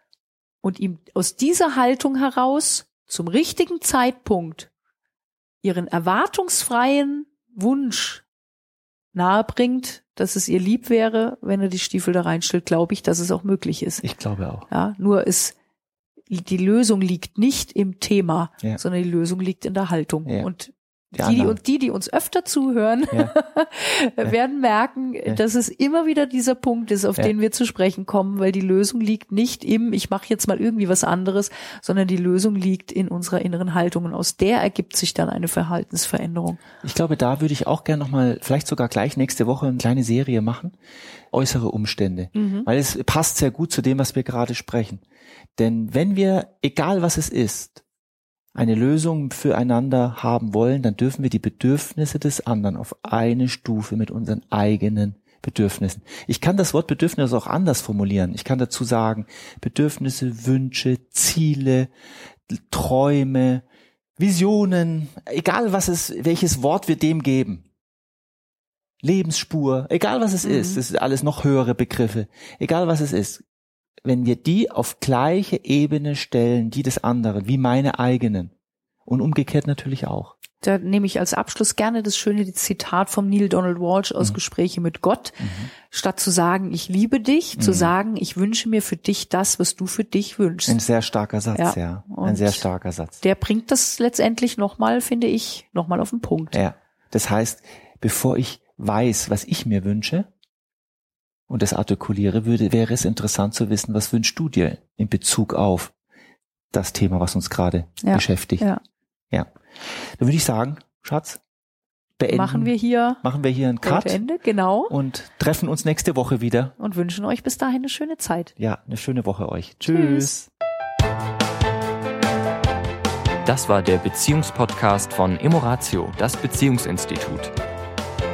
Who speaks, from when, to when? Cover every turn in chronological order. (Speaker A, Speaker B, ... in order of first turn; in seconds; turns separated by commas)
Speaker A: 0.6-4.7, Speaker A: 5.6-8.2, Speaker A: 9.1-14.0, Speaker B: 14.0-14.7, Speaker A: 14.7-15.6, Speaker A: 16.3-36.6, Speaker B: 21.1-21.6, Speaker B: 36.8-40.8, Speaker B: 41.3-45.0, Speaker A: 42.4-42.7, Speaker B: 45.6-47.8, Speaker B: 48.5-61.9, Speaker B: 62.5-63.6, Speaker B: 64.2-67.7, Speaker B: 69.0-73.4, Speaker A: 70.4-70.8, Speaker B: 74.0-78.5, Speaker B: 79.1-80.3, Speaker A: 80.6-90.8, Speaker B: 85.4-85.7, Speaker B: 87.6-88.0, Speaker B: 90.7-93.2, Speaker A: 91.5-92.7, Speaker A: 93.2-96.6, Speaker B: 96.5-100.3, Speaker B: 101.5-105.9, Speaker B: 106.7-108.7, Speaker A: 108.0-108.8, Speaker B: 109.3-111.4, Speaker B: 112.2-114.2, Speaker A: 112.3-113.2, Speaker A: 113.8-114.9, Speaker B: 114.9-116.7, Speaker A: 116.8-118.5, Speaker B: 118.6-120.5, Speaker A: 119.9-120.3, Speaker C: 123.5-127.5